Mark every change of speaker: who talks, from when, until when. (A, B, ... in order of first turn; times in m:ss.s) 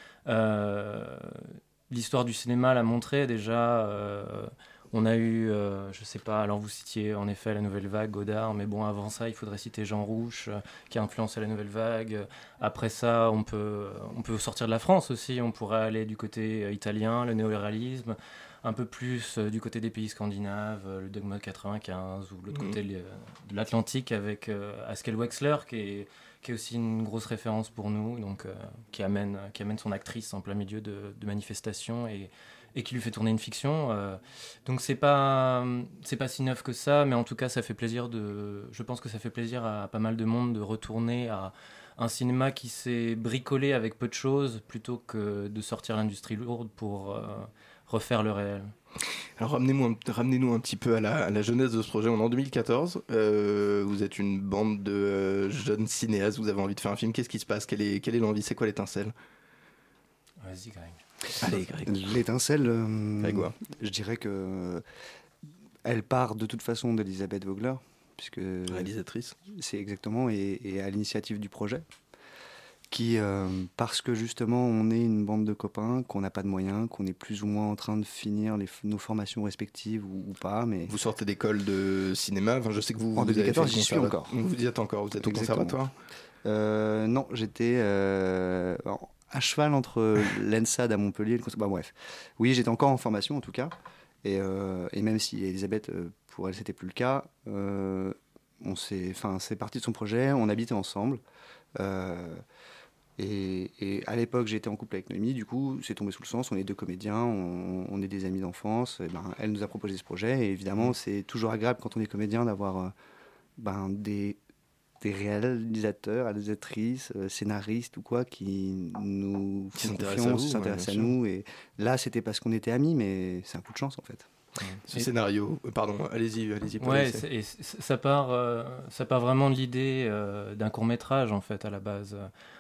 0:00.3-0:48.7 A
0:22.5-0:22.8 B
0:49.4-0:59.1 B
1:00.4-1:01.0 A
1:01.4-1:02.0 B
1:01.5-1:04.8 C
1:03.2-1:03.5 B
1:05.8-1:08.9 C
1:08.7-1:09.4 B
1:09.5-1:11.8 C
1:12.9-1:20.9 C
1:20.9-1:25.9 B
1:23.2-1:24.4 C
1:25.1-1:25.8 C
1:26.4-1:41.2 C
1:41.8-1:42.4 C
1:43.2-1:52.9 C
1:53.6-1:54.4 C
1:55.0-2:04.3 C
1:59.8-2:01.2 B
2:04.8-2:07.3 B
2:06.8-2:12.3 A